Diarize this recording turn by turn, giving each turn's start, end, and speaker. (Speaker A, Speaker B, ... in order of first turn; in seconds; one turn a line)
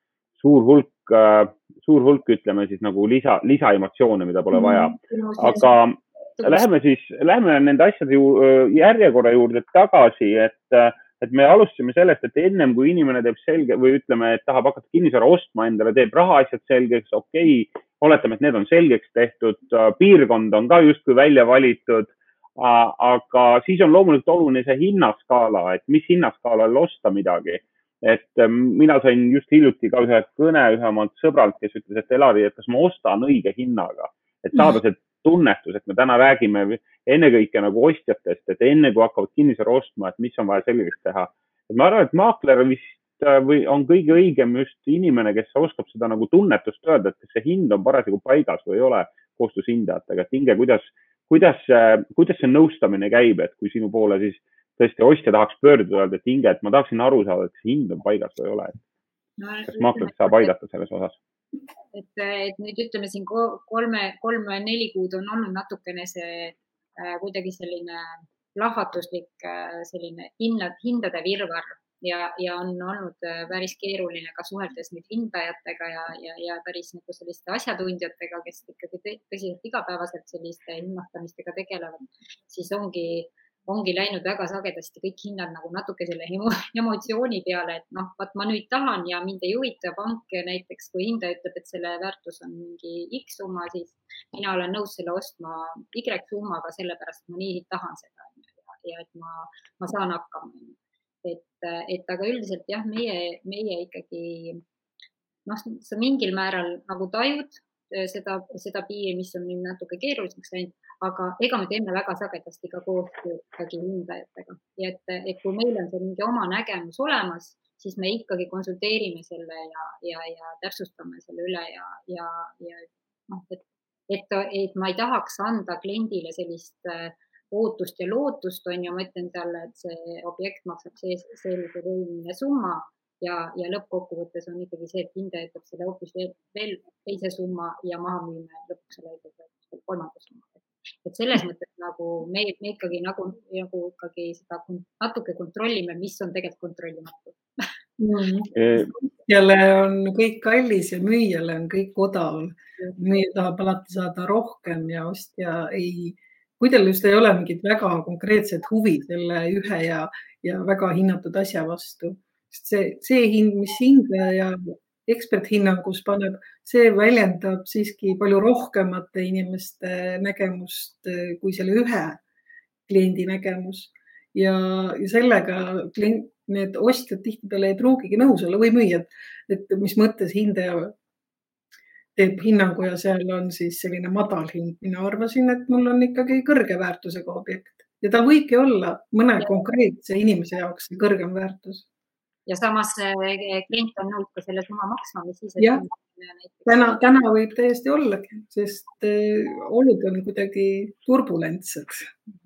Speaker A: 0.4-58.8
Speaker B: 4.5-5.8
Speaker B: 6.4-6.6
Speaker B: 59.4-60.5
Speaker A: 59.7-61.1
Speaker B: 61.9-104.6
Speaker B: 105.5-147.7
Speaker C: 148.0-172.2
Speaker A: 148.5-148.9
Speaker C: 172.9-180.9
Speaker C: 182.2-191.8
Speaker B: 192.5-196.7
Speaker C: 195.6-195.8
Speaker C: 196.7-202.1